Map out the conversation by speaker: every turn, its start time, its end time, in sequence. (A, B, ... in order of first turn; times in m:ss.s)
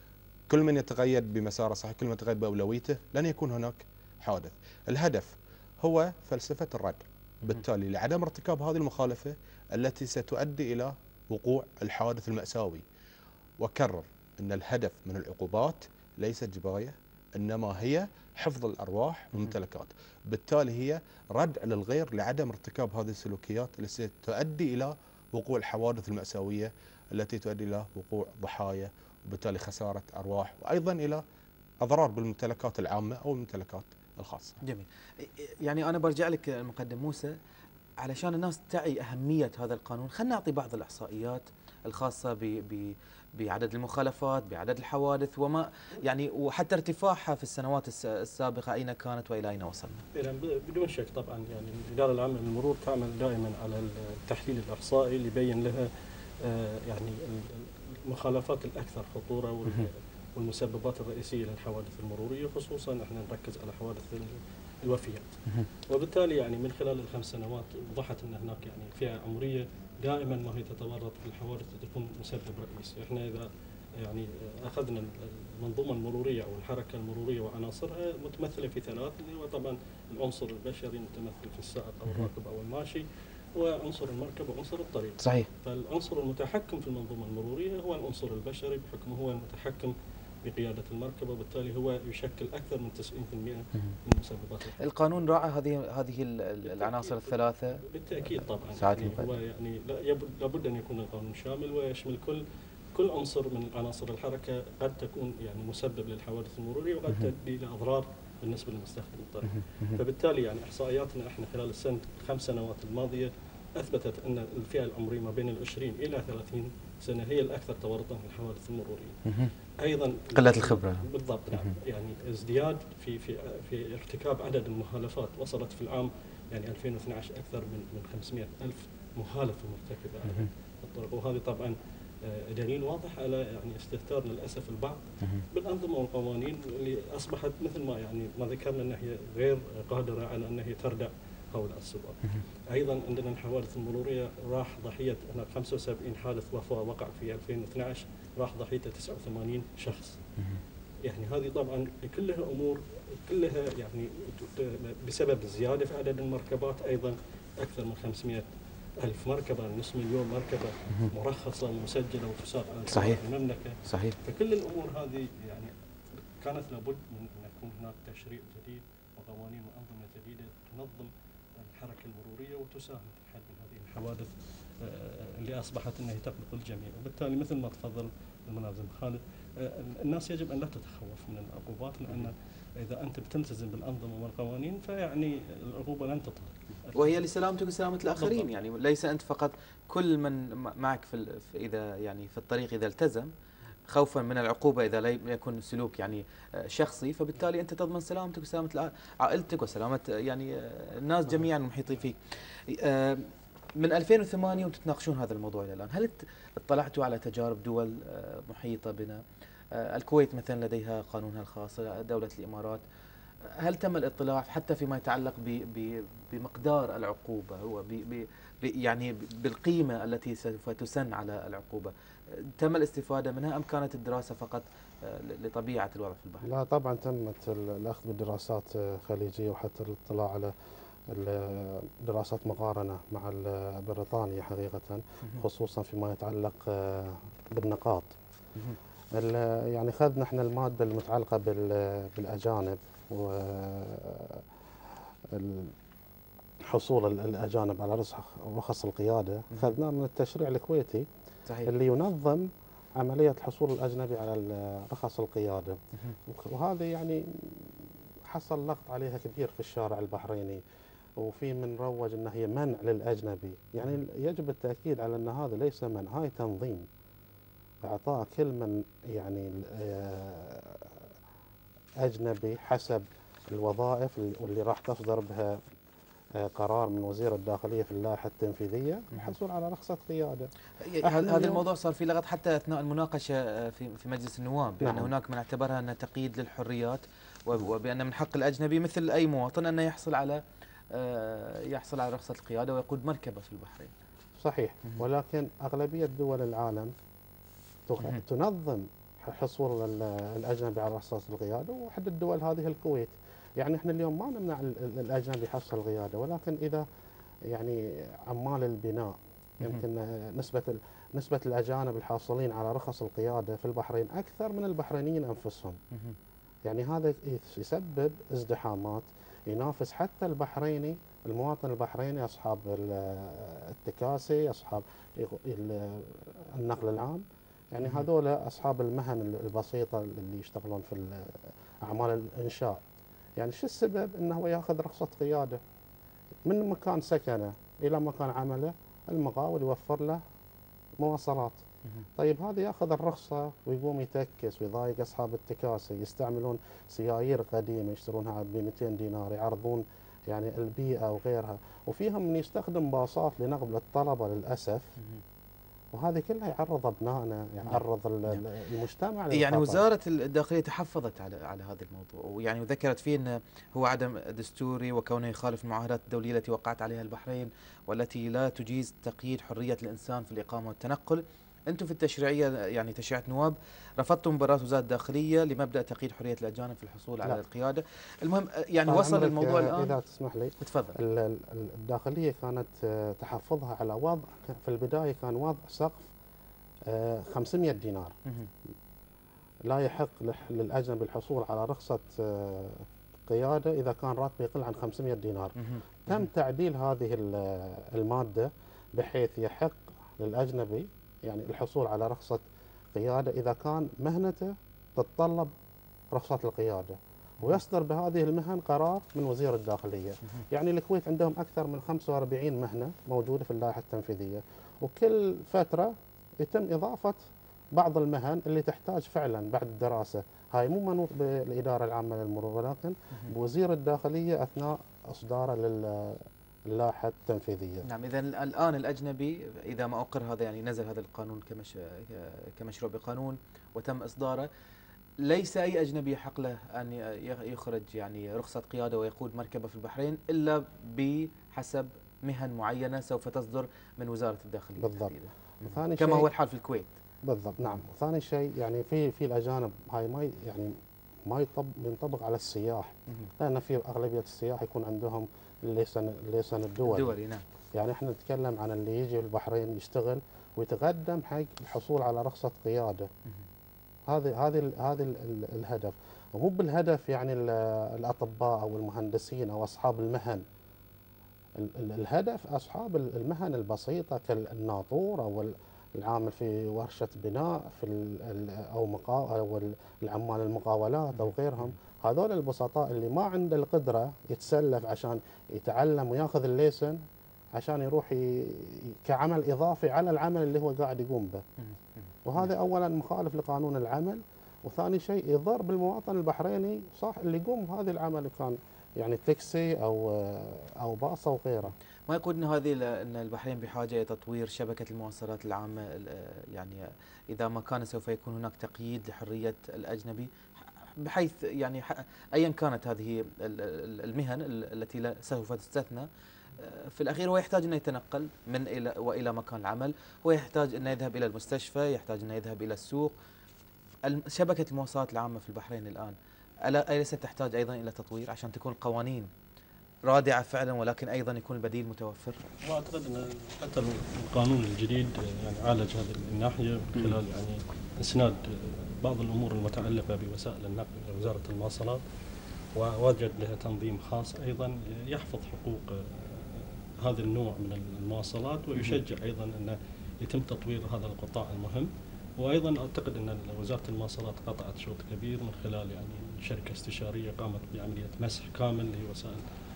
0:00.5-0:12.8 A
0:13.6-0:31.2 A
0:31.8-0:34.6 A
0:34.6-0:37.4 B
0:38.0-0:50.0 B
0:50.1-0:55.9 C
0:56.4-1:05.3 C
1:05.9-1:23.0 C
1:23.6-1:34.9 C
1:25.2-1:25.5 B
1:34.8-1:39.4 B
1:36.6-1:37.3 C
1:37.9-1:42.4 C
1:42.9-1:59.2 C
1:59.3-1:59.5 B
1:59.8-2:22.2 C
2:00.4-2:01.0 B
2:22.7-2:30.2 C
2:31.0-2:38.5 C
2:39.0-3:07.1 C
2:42.9-2:43.2 B
2:43.8-2:44.2 B
3:06.9-3:13.3 B
3:08.2-3:08.5 C
3:13.9-3:29.2 B
3:29.7-3:32.8 B
3:33.5-3:46.5 B
3:46.4-3:50.5 D
3:51.1-3:58.1 D
3:59.1-4:04.4 D
4:05.3-4:05.7 D
4:06.7-4:11.1 D
4:11.6-4:12.5 D
4:13.0-4:20.6 D
4:21.2-4:26.9 D
4:27.8-4:31.0 D
4:32.0-4:35.6 D
4:36.4-4:41.6 D
4:40.8-4:53.9 B
4:44.8-4:45.1 D
4:54.4-4:56.9 D
4:57.9-5:06.8 D
5:07.5-5:15.8 D
5:16.6-5:32.8 D
5:33.4-5:35.6 D
5:36.4-5:40.2 D
5:41.0-5:41.6 D
5:42.2-5:54.9 D
5:55.9-5:59.8 D
5:57.7-5:58.4 B
5:59.3-6:19.9 B
6:18.8-6:26.1 D
6:20.6-6:21.0 B
6:26.9-6:28.1 D
6:29.7-6:35.6 D
6:35.6-6:36.3 B
6:36.1-6:45.5 D
6:46.1-7:07.8 D
7:07.9-7:14.5 B
7:15.2-7:27.0 B
7:24.8-7:26.3 D
7:27.2-7:30.7 D
7:31.3-7:37.2 D
7:36.9-7:37.4 B
7:37.7-7:43.1 D
7:44.1-7:50.4 D
7:51.6-8:07.0 D
8:07.5-8:11.4 D
8:11.6-8:12.5 B
8:12.2-8:21.7 D
8:21.7-8:43.1 B
8:44.0-8:49.3 B
8:50.1-8:52.4 B
8:52.6-9:02.0 C
9:02.8-9:19.4 C